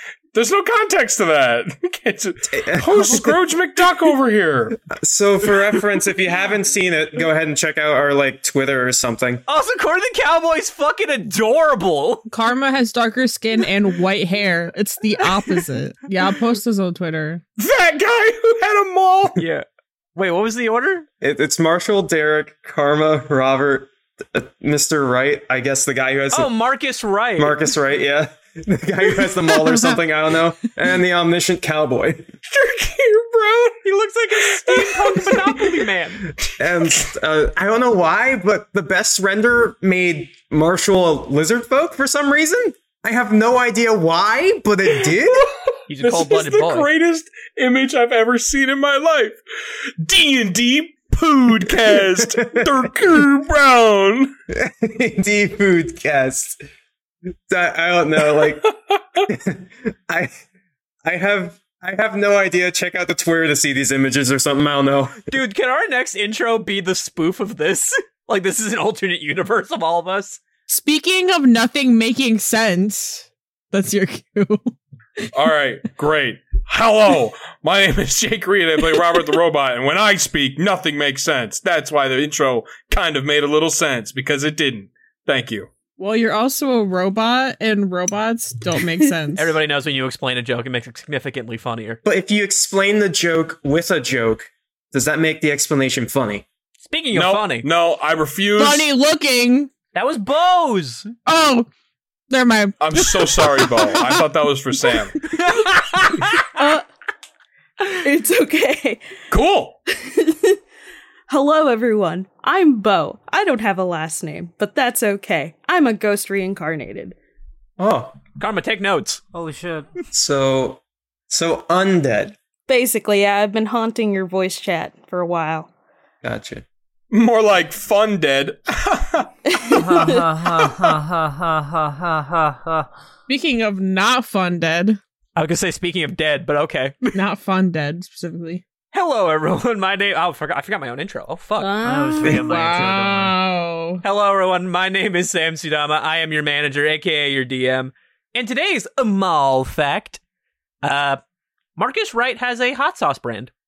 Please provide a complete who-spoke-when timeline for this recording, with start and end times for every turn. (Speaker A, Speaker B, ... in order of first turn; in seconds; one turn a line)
Speaker A: 0.3-4.8
Speaker B: 2.5-3.4
Speaker B: 4.9-9.4
Speaker C: 9.5-12.2
Speaker D: 12.3-17.4
Speaker A: 17.6-19.4
Speaker C: 19.4-21.1
Speaker B: 21.2-26.5
Speaker C: 26.3-27.6
Speaker B: 27.4-32.3
Speaker A: 32.5-33.7
Speaker C: 33.7-36.3
Speaker B: 36.6-45.5
Speaker C: 45.9-46.9
Speaker A: 46.0-49.4
Speaker A: 50.0-54.3
Speaker B: 51.7-53.2
Speaker B: 54.5-56.6
Speaker B: 57.5-58.7
Speaker A: 58.4-59.0
Speaker B: 59.2-60.4
Speaker B: 61.0-65.3
Speaker C: 65.3-70.4
Speaker D: 70.7-74.7
Speaker A: 75.3-85.7
Speaker D: 86.0-89.5
Speaker C: 89.4-92.0
Speaker B: 92.0-96.5
Speaker C: 96.8-97.7
Speaker A: 97.1-98.9
Speaker D: 98.6-99.7
Speaker C: 99.9-101.1
Speaker D: 101.3-101.7
Speaker D: 102.3-104.2
Speaker A: 102.8-105.2
Speaker C: 105.4-106.4
Speaker E: 106.6-106.8
Speaker E: 107.9-109.0
Speaker A: 109.3-109.8
Speaker E: 109.9-110.6
Speaker E: 111.3-117.2
Speaker B: 117.8-118.1
Speaker C: 118.4-119.2
Speaker F: 119.3-119.9
Speaker B: 120.1-122.3
Speaker E: 122.7-125.7
Speaker B: 126.2-126.7
Speaker A: 127.1-129.5
Speaker E: 129.5-130.2
Speaker F: 129.8-132.9
Speaker D: 133.3-135.0
Speaker C: 135.4-137.0
Speaker D: 137.1-138.6
Speaker C: 138.9-141.7
Speaker E: 141.6-142.6
Speaker F: 141.8-143.4
Speaker D: 142.2-144.0
Speaker C: 144.0-150.2
Speaker C: 150.8-151.2
Speaker C: 151.8-153.5